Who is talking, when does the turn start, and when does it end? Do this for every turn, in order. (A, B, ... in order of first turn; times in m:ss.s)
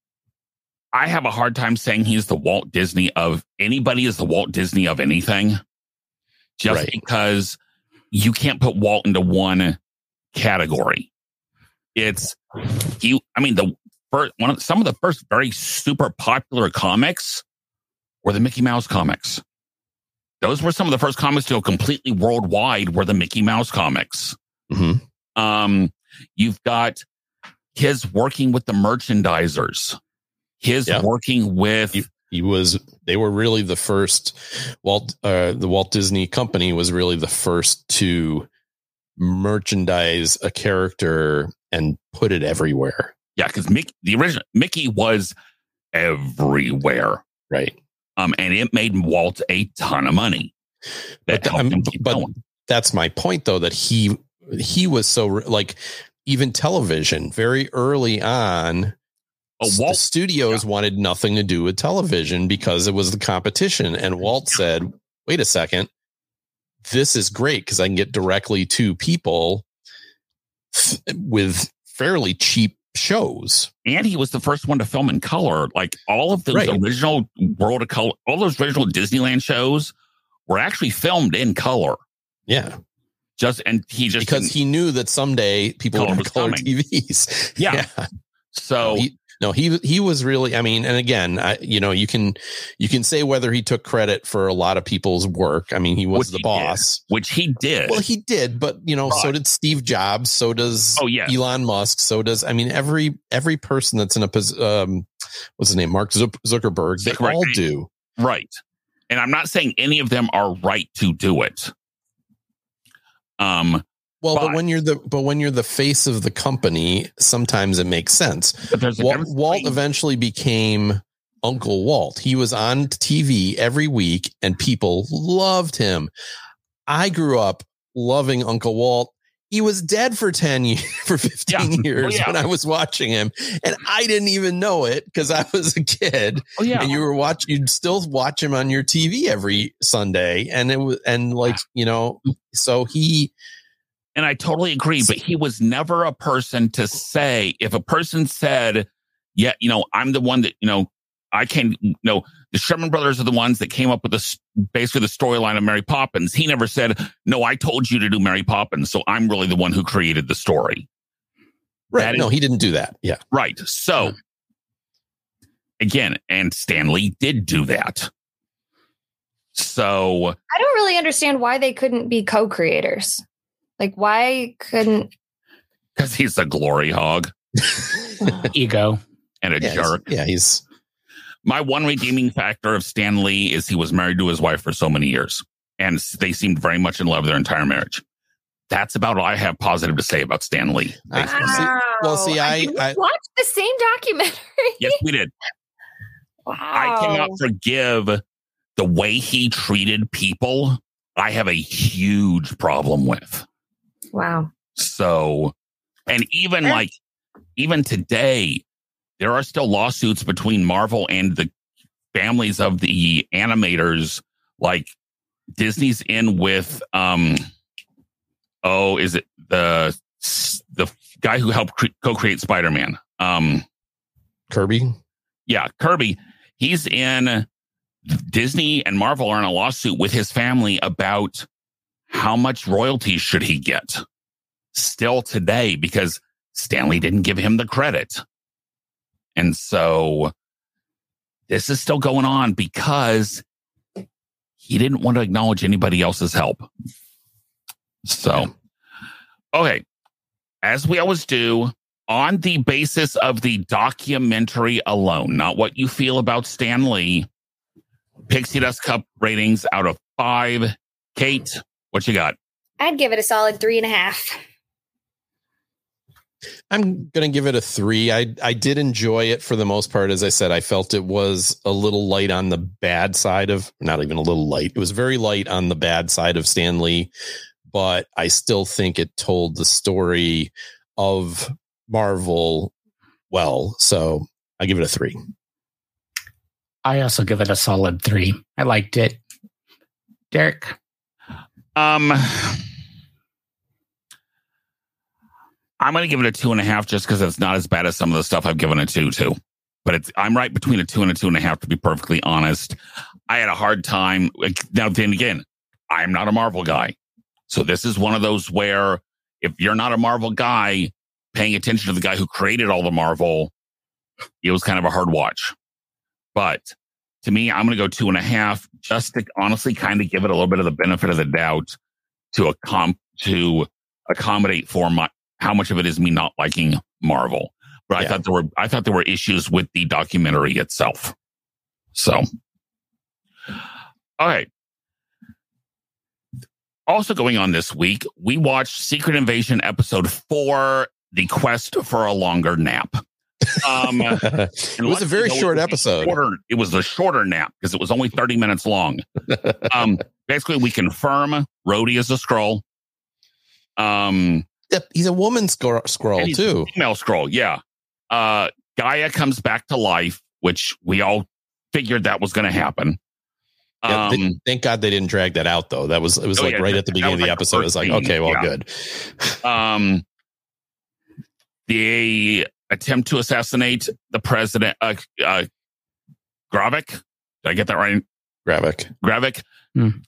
0:00.9-0:05.6 A
0:06.6-0:07.6 A
0:06.7-0:06.9 B
0:08.1-0:09.8 A
0:10.3-0:11.1 A
0:12.0-0:17.4 A
0:18.2-0:19.4 A
0:20.4-0:24.4 A
0:24.7-0:25.0 B
0:25.4-0:27.0 A
0:27.8-0:30.0 A
0:30.6-0:32.1 A
0:31.9-0:38.5 B
0:39.2-0:43.1 B
0:43.4-0:45.3 A
0:45.9-0:47.2 A
0:47.5-0:47.8 B
0:48.2-0:50.5 A
0:51.3-0:52.3 A
0:51.3-0:58.9 B
0:59.6-1:00.6 A
0:59.6-1:05.9 B
1:06.8-1:09.6 B
1:10.7-1:13.7 B
1:13.8-1:19.9 A
1:16.5-1:16.8 B
1:20.5-1:22.0 A
1:22.5-1:22.8 B
1:23.4-1:24.5 A
1:24.2-1:28.1 B
1:25.9-1:26.7 A
1:27.6-1:27.8 A
1:28.5-1:29.0 A
1:28.8-1:37.0 B
1:36.1-1:38.0 A
1:37.8-1:47.9 B
1:39.1-1:39.3 A
1:41.0-1:41.3 A
1:47.0-1:47.6 A
1:48.2-1:48.6 A
1:49.1-1:51.7 A
1:53.4-1:54.6 A
1:54.2-2:06.1 B
1:58.7-1:59.8 A
2:06.9-2:23.3 B
2:11.5-2:12.4 A
2:16.6-2:16.9 A
2:24.2-2:40.9 A
2:41.9-2:43.2 B
2:42.0-2:42.3 A
2:43.3-2:44.2 A
2:45.8-2:48.1 A
2:49.5-2:50.4 A
2:50.5-2:53.2 C
2:53.8-2:55.1 C
2:56.0-2:57.3 A
2:58.2-2:58.5 C
2:58.5-2:59.0 D
2:59.4-3:00.0 A
2:59.6-3:00.6 B
3:01.4-3:08.0 A
3:08.7-3:11.6 A
3:11.1-3:13.0 B
3:11.2-3:14.9 C
3:14.8-3:15.3 A
3:16.4-3:17.4 C
3:16.7-3:18.2 A
3:18.8-3:23.4 A
3:24.1-3:24.5 C
3:24.8-3:25.5 A
3:26.1-3:26.9 A
3:27.6-3:28.6 A
3:29.2-3:31.5 A
3:32.1-3:34.9 A
3:35.5-3:37.4 A
3:38.6-3:43.6 A
3:44.5-3:45.0 B
3:45.5-3:47.4 A
3:48.0-3:51.4 A
3:52.1-3:54.0 A
3:54.7-3:58.2 A
3:59.4-4:00.3 A
4:01.5-4:03.4 A
4:04.6-4:06.7 A
4:08.0-4:08.5 A
4:09.5-4:09.8 A
4:10.6-4:17.3 A
4:18.3-4:22.4 A
4:22.8-4:24.4 C
4:26.7-4:37.1 B
4:37.7-4:42.7 B
4:43.3-4:45.2 B
4:46.8-4:49.2 D
4:50.3-4:50.8 D
4:51.7-4:52.6 A
4:55.8-5:02.8 A
5:03.3-5:06.9 A
5:07.5-5:13.5 A
5:14.4-5:15.5 A
5:16.3-5:21.7 A
5:22.3-5:31.1 A
5:31.9-5:32.2 A
5:34.2-5:34.5 A
5:36.9-5:49.0 A
5:44.1-5:46.2 B
5:49.6-5:52.6 A
5:53.8-5:54.4 A
5:54.7-5:56.7 B
5:56.2-5:57.6 A
5:58.1-6:03.0 A
6:03.8-6:04.4 A
6:03.9-6:09.4 B
6:06.4-6:08.5 A
6:09.4-6:10.0 A
6:11.7-6:15.5 A
6:16.5-6:18.0 A
6:18.4-6:18.9 B
6:19.0-6:19.4 A